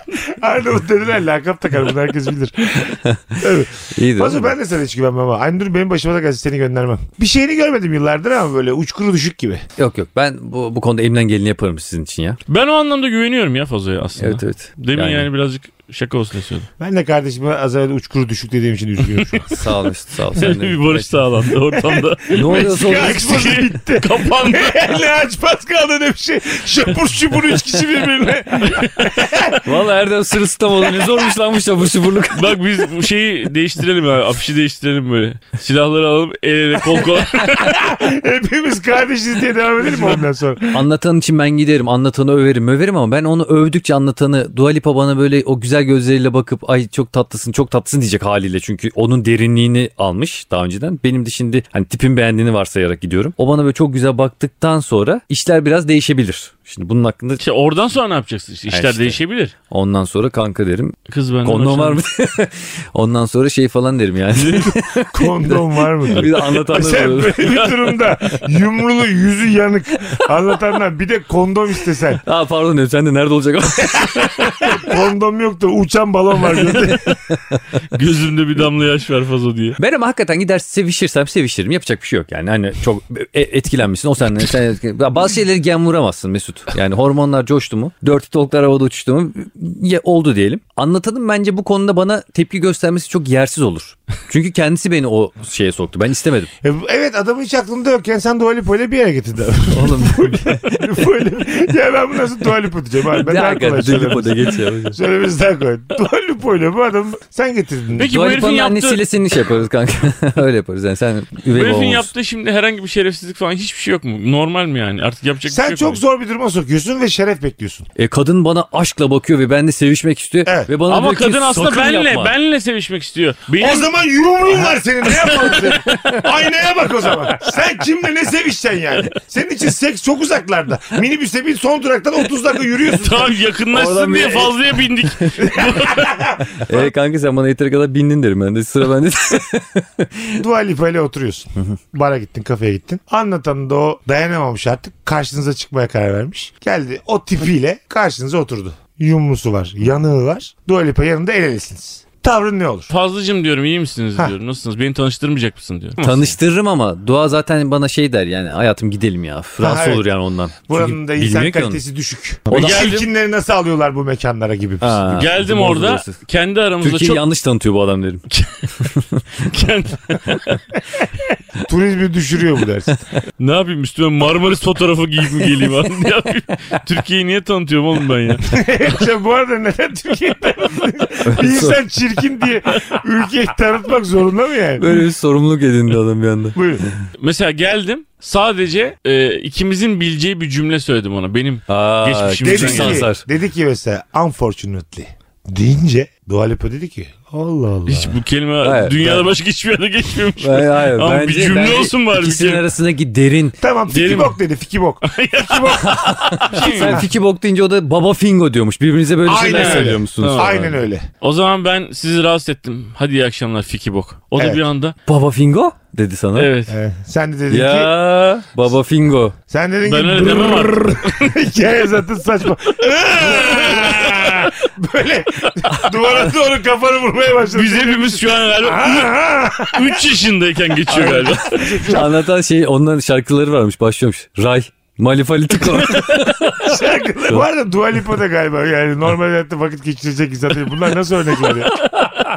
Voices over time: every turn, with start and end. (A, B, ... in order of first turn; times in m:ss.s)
0:00.1-0:09.6 A
0:02.8-0:03.4 B
0:03.9-0:04.5 B
0:09.8-0:12.4 B
0:12.5-0:16.7 C
0:14.2-0:15.3 B
0:16.8-0:19.5 A
0:19.1-0:19.4 C
0:19.5-0:21.0 B
0:20.3-0:24.9 C
0:21.7-0:29.6 A
0:22.3-0:23.4 B
0:28.7-0:29.1 C
0:29.6-0:32.8 B
0:32.3-0:37.8 C
0:37.4-0:40.8 A
0:40.7-0:57.4 B
0:57.4-0:59.5 C
0:58.7-1:08.4 B
1:01.1-1:02.0 C
1:04.3-1:04.7 C
1:05.1-1:12.2 A
1:12.2-1:14.8 B
1:14.6-1:17.1 A
1:16.5-1:17.1 C
1:17.9-1:19.8 C
1:19.8-1:36.5 B
1:36.6-1:48.1 A
1:39.7-1:41.0 B
1:43.1-1:45.0 B
1:48.0-1:49.0 C
1:48.0-1:52.1 B
1:51.5-1:56.0 C
1:55.5-1:57.9 A
1:58.0-2:02.3 B
2:00.4-2:00.7 A
2:00.9-2:03.9 C
2:03.6-2:14.0 A
2:05.1-2:06.0 C
2:12.9-2:16.2 C
2:13.7-2:15.4 B
2:15.4-2:16.9 A
2:16.6-2:20.4 B
2:20.4-2:32.9 A
2:32.9-2:36.3 C
2:36.0-2:41.8 B
2:39.6-2:40.1 A
2:40.7-2:45.1 A
2:42.5-2:42.9 B
2:42.5-2:43.1 C
2:44.8-2:46.2 B
2:45.1-2:47.2 C
2:46.8-2:48.2 B
2:48.3-2:48.7 C
2:48.8-2:49.2 B
2:49.4-2:50.6 C
2:51.6-2:53.0 A
2:53.4-2:58.5 C
2:58.5-3:04.8 A
3:01.2-3:01.8 B
3:04.8-3:07.0 B
3:06.6-3:06.8 A
3:07.2-3:13.1 C
3:11.7-3:13.2 B
3:12.4-3:18.2 A
3:17.9-3:22.6 C
3:18.6-3:19.3 B
3:20.4-3:23.6 B
3:23.6-3:25.9 A
3:23.9-3:24.4 C
3:25.0-3:27.0 C
3:25.7-3:30.8 B
3:26.5-3:27.0 A
3:29.2-3:31.0 A
3:29.4-3:30.6 C
3:31.2-3:35.0 C
3:34.4-3:34.6 A
3:35.0-3:36.5 B
3:36.3-3:36.7 C
3:36.7-3:37.9 A
3:37.5-3:39.4 B
3:39.5-3:50.0 A
3:39.8-3:41.3 C
3:43.2-3:44.6 C
3:45.6-3:46.3 C
3:47.5-3:51.8 C
3:50.9-3:52.2 A
3:51.9-3:56.5 B
3:55.9-3:56.3 C
3:56.4-4:01.8 A